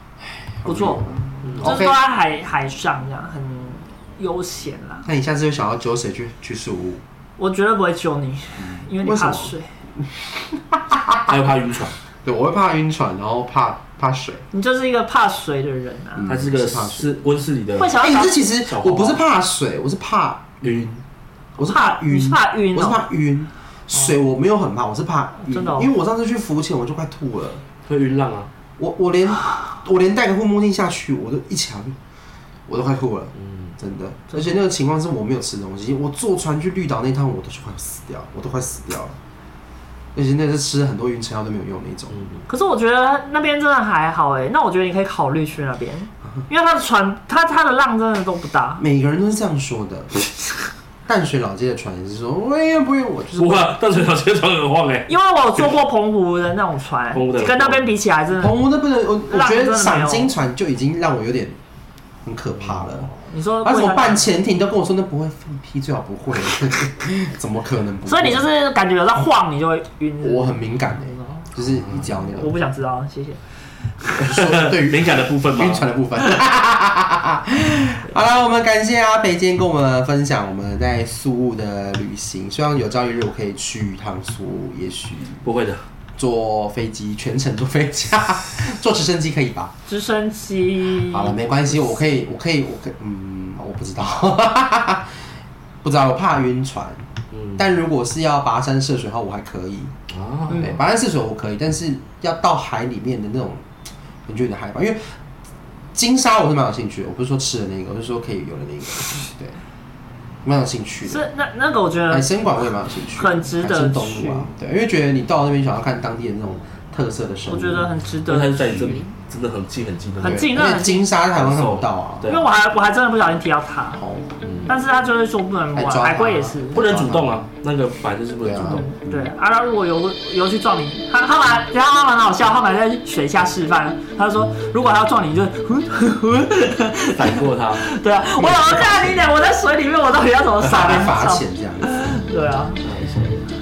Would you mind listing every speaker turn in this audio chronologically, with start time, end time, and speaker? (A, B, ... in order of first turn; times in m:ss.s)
0:00.2-0:02.0 A
0:00.7-0:01.0 B
0:01.4-0:01.8 C
0:01.6-0:05.1 B
0:05.0-0:07.0 A
0:07.4-0:09.7 B
0:08.7-0:09.5 A
0:10.5-0:11.3 A
0:11.3-0:12.0 C
0:12.2-0:14.4 A
0:14.5-0:16.3 B
0:16.2-0:17.2 A
0:16.3-0:18.0 C
0:17.8-0:18.4 B
0:17.9-0:20.6 A
0:18.6-0:19.2 C
0:20.6-0:21.0 C
0:21.6-0:27.6 A
0:21.7-0:23.0 B
0:25.5-0:25.9 B
0:27.9-0:28.5 C
0:28.8-0:32.0 A
0:32.7-0:39.2 A
0:33.4-0:33.7 C
0:34.3-0:34.6 B
0:40.2-0:42.2 A
0:42.5-0:48.8 B
0:48.8-0:50.3 A
0:51.1-0:53.8 A
0:53.4-0:55.1 C
0:55.1-0:58.6 B
0:57.1-0:57.9 C
0:58.4-1:01.6 A
0:59.3-1:00.3 B
1:02.2-1:03.1 A
1:02.6-1:03.0 C
1:03.2-1:04.3 B
1:03.6-1:08.5 A
1:08.1-1:11.5 B
1:10.2-1:12.5 A
1:12.3-1:13.4 B
1:14.2-1:25.4 A
1:14.2-1:15.8 C
1:25.4-1:25.8 C
1:26.2-1:29.7 A
1:29.9-1:31.5 B
1:31.0-1:35.1 A
1:35.8-1:37.0 A
1:37.3-1:37.6 C
1:37.6-1:39.9 A
1:40.1-1:40.7 C
1:40.5-1:43.6 A
1:44.3-1:45.1 A
1:45.9-1:49.6 A
1:50.4-1:51.2 A
1:51.1-1:52.3 B
1:52.1-1:57.9 A
1:53.2-1:54.5 B
1:57.5-1:59.1 B
1:58.3-2:00.5 C
2:00.2-2:01.1 B
2:00.2-2:02.3 A
2:01.4-2:02.5 C
2:02.3-2:04.0 B
2:04.0-2:04.3 A
2:04.4-2:04.7 C
2:04.7-2:06.8 B
2:05.7-2:07.4 A
2:06.7-2:09.0 C
2:08.4-2:08.9 A
2:08.6-2:22.8 B
2:17.2-2:17.8 C
2:18.4-2:19.2 A
2:20.6-2:22.1 A
2:22.8-2:23.5 C